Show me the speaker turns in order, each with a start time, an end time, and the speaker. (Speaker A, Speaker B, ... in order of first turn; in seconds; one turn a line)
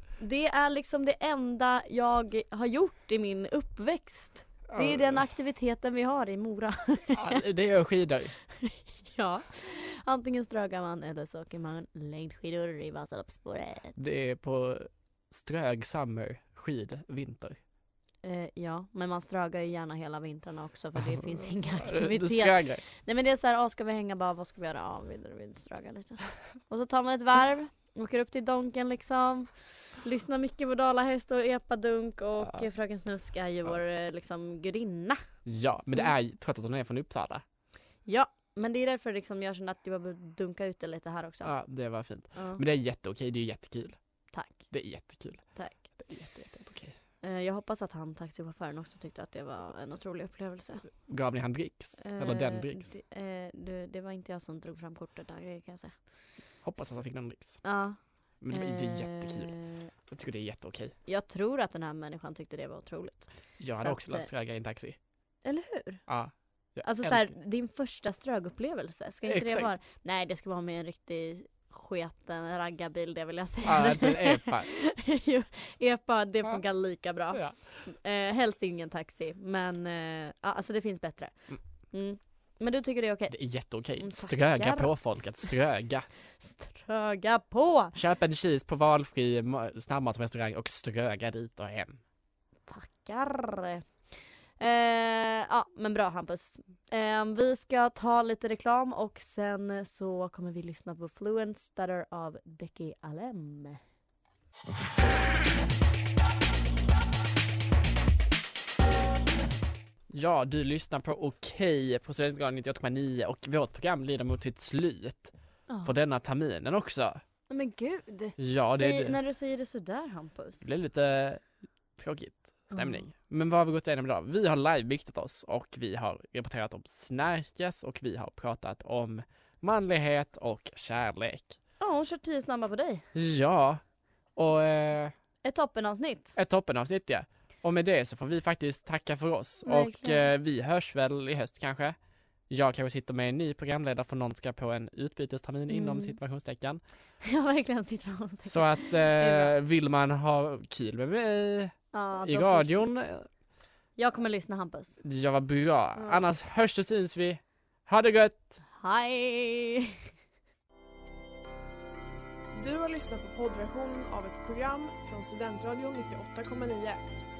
Speaker A: 0.2-7.4
Speaker B: 4.7-5.3
Speaker B: 7.1-8.3
Speaker A: 8.6-14.1
Speaker B: 14.0-17.6
Speaker A: 18.2-35.2
Speaker B: 21.1-22.8
Speaker B: 35.5-37.4
Speaker A: 38.1-41.5
Speaker B: 41.4-44.0
Speaker A: 42.3-42.6
Speaker A: 44.3-44.6
Speaker B: 44.7-45.4
Speaker B: 46.0-47.0
Speaker A: 47.2-50.9
Speaker B: 51.1-52.9
Speaker A: 52.0-56.0
Speaker B: 56.6-57.6
Speaker A: 57.6-58.0
Speaker B: 58.4-59.5
Speaker A: 58.5-59.9
Speaker B: 60.1-60.9
Speaker A: 61.1-64.3
Speaker B: 63.6-65.0
Speaker A: 65.5-66.0
Speaker B: 66.1-67.3
Speaker A: 66.8-83.4
Speaker B: 69.3-69.7
Speaker B: 73.6-74.7
Speaker B: 83.3-86.1
Speaker A: 84.0-85.5
Speaker A: 86.4-88.0
Speaker B: 88.0-92.0
Speaker A: 92.7-93.8
Speaker A: 94.6-103.8
Speaker B: 110.1-115.3
Speaker A: 115.7-116.0
Speaker B: 115.8-117.2
Speaker A: 117.5-120.7
Speaker B: 118.4-119.2
Speaker B: 120.6-121.4
Speaker B: 122.0-131.6
Speaker A: 122.7-123.0
Speaker A: 131.8-133.1
Speaker B: 133.1-133.8
Speaker B: 134.4-135.1
Speaker A: 135.4-136.4
Speaker B: 136.3-142.0
Speaker A: 139.6-140.3
Speaker B: 142.5-146.8
Speaker A: 145.7-146.2
Speaker A: 147.2-149.6
Speaker B: 148.5-153.3
Speaker A: 151.9-152.9
Speaker A: 154.0-155.0
Speaker B: 155.0-158.6
Speaker A: 156.0-156.2
Speaker A: 158.8-160.0
Speaker C: 162.5-167.0